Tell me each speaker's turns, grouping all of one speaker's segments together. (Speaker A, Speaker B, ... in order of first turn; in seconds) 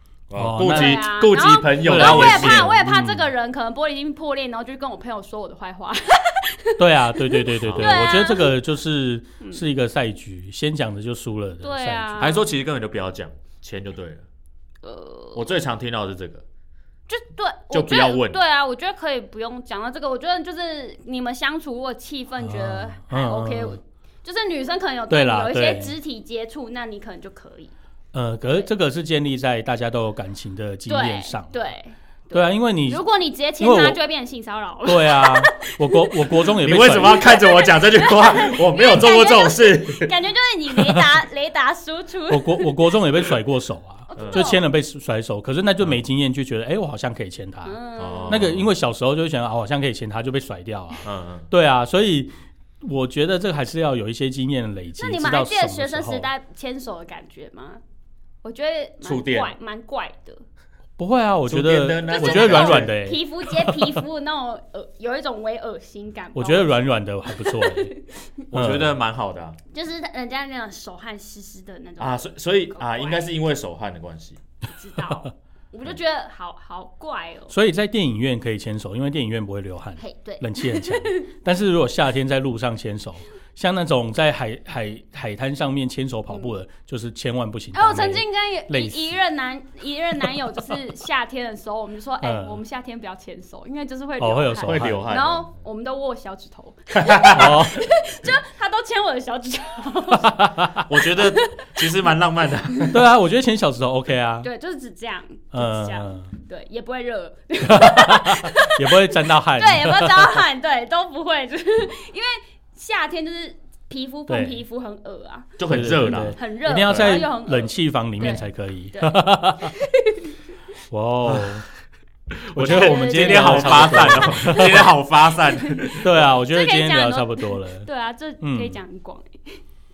Speaker A: 0.3-2.7, 7.6-8.2, 12.2-14.2, 15.3-16.4, 17.7-18.4, 36.6-40.1, 44.2-44.5, 48.0-48.7, 51.0-51.5, 59.0-59.5, 61.5-62.9, 68.5-69.6, 72.0-74.4, 94.6-95.5, 96.9-97.6, 100.9-103.0, 115.6-117.3, 121.2-121.6, 122.3-126.3
Speaker B: 0.3-1.0, 1.8-3.3, 6.8-12.3, 22.4-23.8, 25.1-25.9, 28.1-31.6, 32.3-33.0, 33.6-34.0, 34.9-37.3, 42.3-56.3, 61.0-64.0, 66.3-67.9, 68.5-69.0, 77.5-89.2, 92.2-92.6, 94.2-95.1, 97.3-97.8, 100.1-100.8, 102.9-104.5, 105.5-106.3, 107.6-110.4, 114.3-114.6, 115.7-119.7, 120.9-121.7, 122.5-124.9, 126.0-127.9, 128.4-128.8
Speaker C: 0.6-8.5, 11.6-12.4, 14.8-15.5, 17.1-27.7, 30.9-36.4, 37.0-42.8, 44.1-44.6, 47.6-48.4, 55.0-57.8, 58.4-60.4, 62.1-68.3, 69.7-73.3, 74.7-77.5, 80.0-81.2, 87.7-101.9, 104.4-120.3, 122.6-129.6